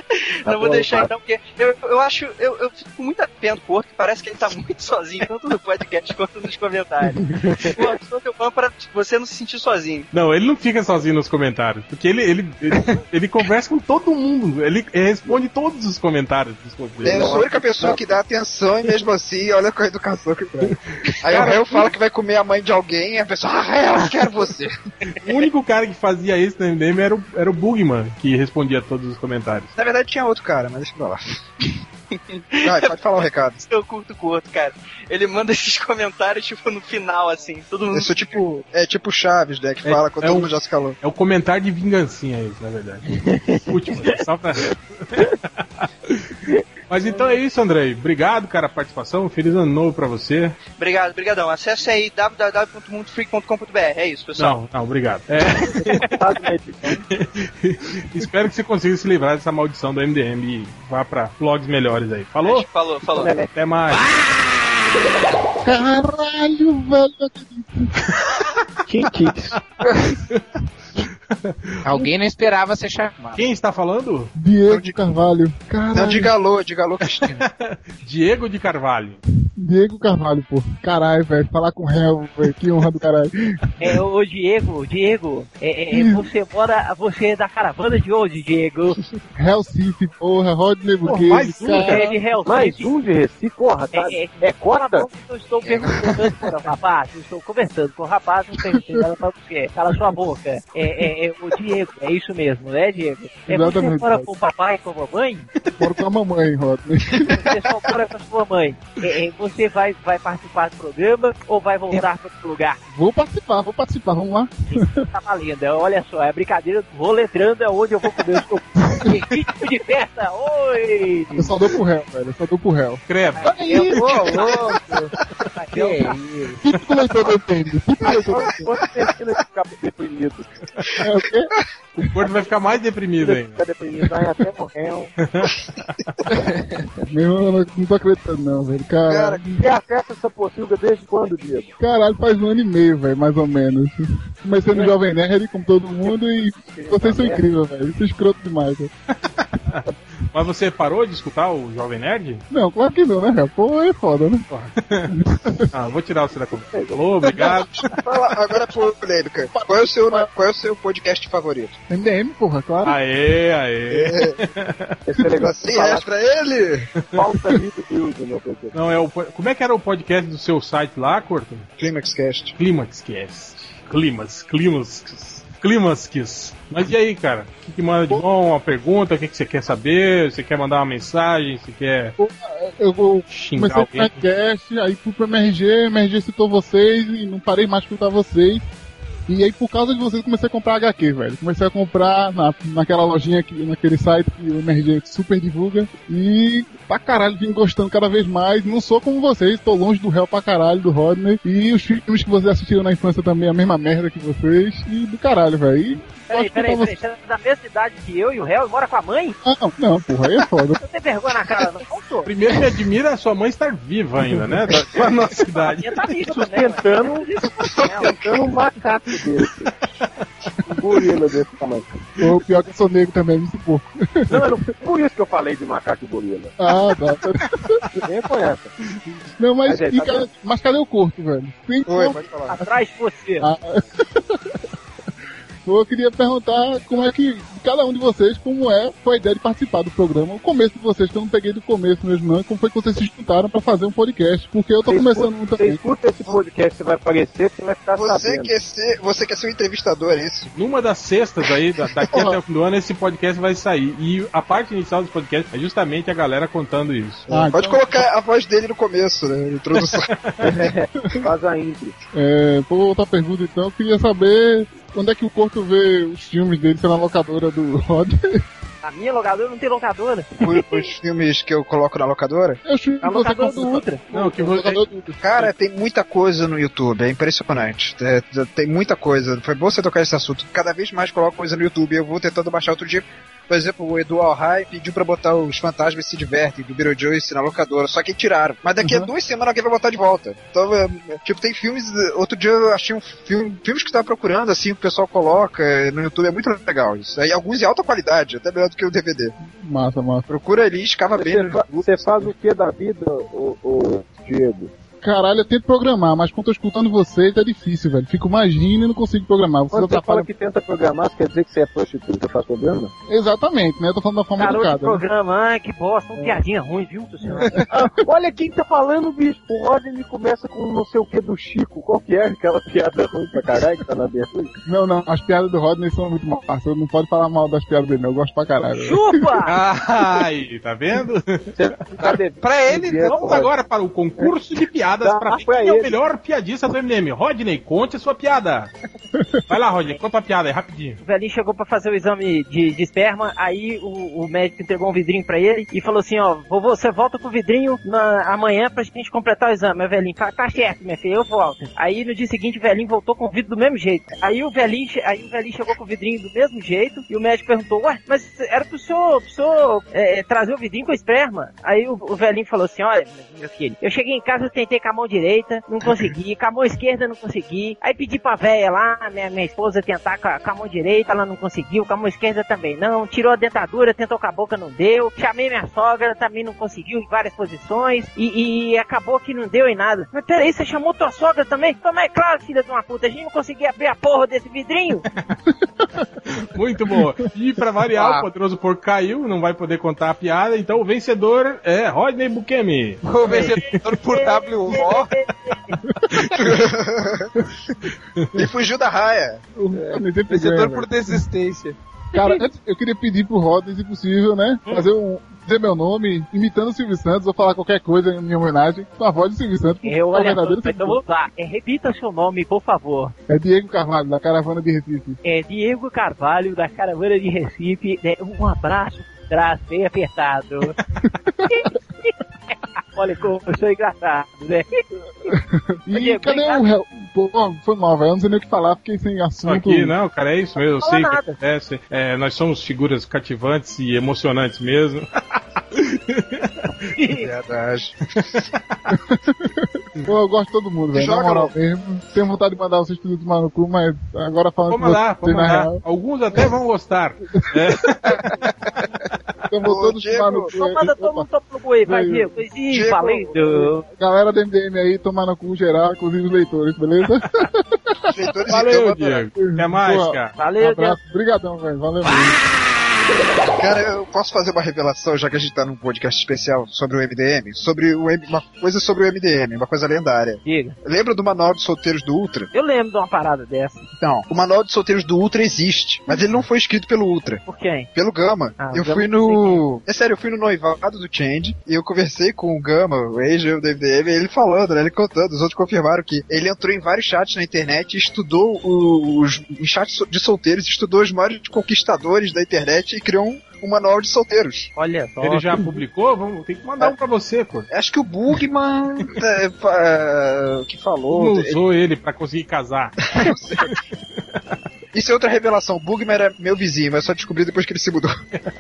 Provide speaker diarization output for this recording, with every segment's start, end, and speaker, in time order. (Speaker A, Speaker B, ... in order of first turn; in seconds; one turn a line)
Speaker A: 0.5-1.1
Speaker B: 0.5-7.2
Speaker A: 7.3-7.9
Speaker B: 7.8-10.1
Speaker C: 10.1-17.2
Speaker A: 17.0-18.1
Speaker D: 17.0-24.7
Speaker C: 20.6-21.9
Speaker C: 25.2-29.7
Speaker D: 29.8-31.2
Speaker B: 32.6-33.0
Speaker D: 32.6-33.6
Speaker B: 33.6-38.4
Speaker D: 37.9-41.0
Speaker C: 39.8-45.3
Speaker C: 45.8-46.3
Speaker C: 46.9-50.6
Speaker B: 50.8-54.6
Speaker C: 54.4-56.2
Speaker A: 55.8-57.0
Speaker C: 57.1-62.7
Speaker B: 62.4-63.3
Speaker A: 63.1-63.5
Speaker C: 63.5-64.1
Speaker E: 65.7-67.7
Speaker A: 68.9-69.6
Speaker C: 71.5-72.0
Speaker F: 71.8-73.5
Speaker C: 73.4-74.3
Speaker E: 74.3-76.3
Speaker D: 74.7-75.0
Speaker D: 75.9-77.4
Speaker C: 77.2-79.2
Speaker E: 79.6-83.5
Speaker G: 83.8-89.0
Speaker E: 85.9-86.3
Speaker E: 89.4-92.0
Speaker C: 91.0-92.0
Speaker G: 91.9-92.9
Speaker A: 92.0-95.1
Speaker G: 93.9-105.5
Speaker F: 95.6-95.9
Speaker E: 98.7-99.0
Speaker E: 103.5-104.3
Speaker E: 105.8-107.6
Speaker G: 107.3-112.8
Speaker E: 112.9-115.1
Speaker G: 114.7-121.5
Speaker E: 121.3-123.0
Speaker C: 123.1-124.4
Speaker G: 123.3-124.8
Speaker F: 123.4-125.1
Speaker G: 125.5-126.1
Speaker F: 125.7-126.6
Speaker E: 126.6-128.7
Speaker A: 128.0-130.6
Speaker E: 131.0-132.2
Speaker C: 132.1-133.6
Speaker A: 133.2-135.1
Speaker C: 135.2-135.5
Speaker E: 137.1-139.6
Speaker D: 139.1-139.4
Speaker A: 139.5-141.7
Speaker E: 141.8-148.9
Speaker A: 146.6-147.4
Speaker C: 149.7-152.4
Speaker E: 152.5-154.5
Speaker C: 154.5-155.1
Speaker E: 155.1-155.7
Speaker C: 155.7-157.9
Speaker A: 156.6-157.6
Speaker D: 158.0-161.8
Speaker E: 159.5-160.3
Speaker E: 161.9-163.0
Speaker C: 162.8-165.0
Speaker D: 163.9-164.3
Speaker A: 165.1-166.1
Speaker D: 165.4-166.9
Speaker C: 166.9-167.3
Speaker A: 167.1-168.8
Speaker C: 168.7-171.7
Speaker D: 171.8-172.5
Speaker C: 172.6-182.1
Speaker E: 182.2-188.7
Speaker C: 183.3-184.2
Speaker E: 189.3-207.0
Speaker G: 206.3-209.4
Speaker E: 209.4-210.8
Speaker G: 210.8-212.3
Speaker C: 212.3-215.9
Speaker G: 215.5-218.2
Speaker A: 216.2-217.3
Speaker A: 217.9-219.7
Speaker A: 220.7-221.9
Speaker E: 222.2-224.4
Speaker A: 224.3-226.5
Speaker E: 226.6-227.7
Speaker A: 228.0-228.7
Speaker E: 229.4-232.3
Speaker A: 229.7-230.3
Speaker D: 231.9-232.5
Speaker G: 232.5-233.5
Speaker E: 233.4-234.2
Speaker E: 235.7-245.8
Speaker A: 244.9-248.5
Speaker D: 247.9-250.5
Speaker C: 250.6-257.4
Speaker E: 252.1-252.4
Speaker E: 257.3-257.9
Speaker D: 257.3-260.1
Speaker C: 259.8-260.4
Speaker A: 260.4-262.0
Speaker E: 262.1-268.4
Speaker G: 268.8-270.4
Speaker D: 270.4-272.6
Speaker E: 272.6-275.5
Speaker G: 273.0-274.0
Speaker C: 274.1-274.8
Speaker D: 275.2-299.3
Speaker E: 288.8-289.1
Speaker E: 299.4-300.3
Speaker D: 300.3-302.3
Speaker A: 301.1-304.7
Speaker E: 305.0-310.3
Speaker A: 309.7-312.9
Speaker E: 313.1-315.0
Speaker G: 314.4-317.6
Speaker A: 317.7-324.6
Speaker E: 324.7-329.3
Speaker G: 328.8-329.5
Speaker C: 329.4-331.5
Speaker A: 331.5-333.5
Speaker F: 332.0-333.5
Speaker C: 333.1-338.7
Speaker A: 335.0-336.0
Speaker C: 339.5-341.0
Speaker G: 341.0-385.0
Speaker C: 386.4-393.8
Speaker F: 387.9-388.3
Speaker F: 393.0-395.1
Speaker G: 393.2-395.8
Speaker D: 396.4-397.3
Speaker D: 398.3-399.4
Speaker E: 399.6-401.2
Speaker F: 399.8-401.8
Speaker E: 402.1-411.0
Speaker G: 402.1-402.4
Speaker G: 409.8-413.1
Speaker E: 413.3-415.2
Speaker G: 415.2-420.8
Speaker G: 421.5-424.8
Speaker E: 425.3-429.9
Speaker G: 425.9-426.6
Speaker C: 429.4-435.1
Speaker G: 430.8-431.4
Speaker C: 435.7-436.7
Speaker G: 436.9-437.3
Speaker D: 437.2-438.4
Speaker C: 438.5-438.8
Speaker E: 438.9-439.5
Speaker E: 440.0-445.8
Speaker D: 440.9-441.5
Speaker C: 444.7-448.3
Speaker E: 447.3-447.8
Speaker E: 449.5-451.3
Speaker D: 449.6-450.5
Speaker G: 450.5-453.9
Speaker E: 451.8-452.4
Speaker D: 452.7-453.4
Speaker E: 453.9-458.2
Speaker D: 458.1-459.3
Speaker C: 458.5-460.4
Speaker E: 459.3-462.4
Speaker G: 460.4-461.0
Speaker D: 463.6-472.5
Speaker G: 470.4-470.8
Speaker G: 472.5-473.8
Speaker D: 474.0-477.4
Speaker G: 477.5-477.9
Speaker D: 477.9-494.7
Speaker G: 478.6-479.6
Speaker G: 494.8-495.7
Speaker C: 495.2-497.7
Speaker D: 497.7-501.6
Speaker C: 501.1-503.8
Speaker D: 503.1-503.7
Speaker D: 504.9-508.1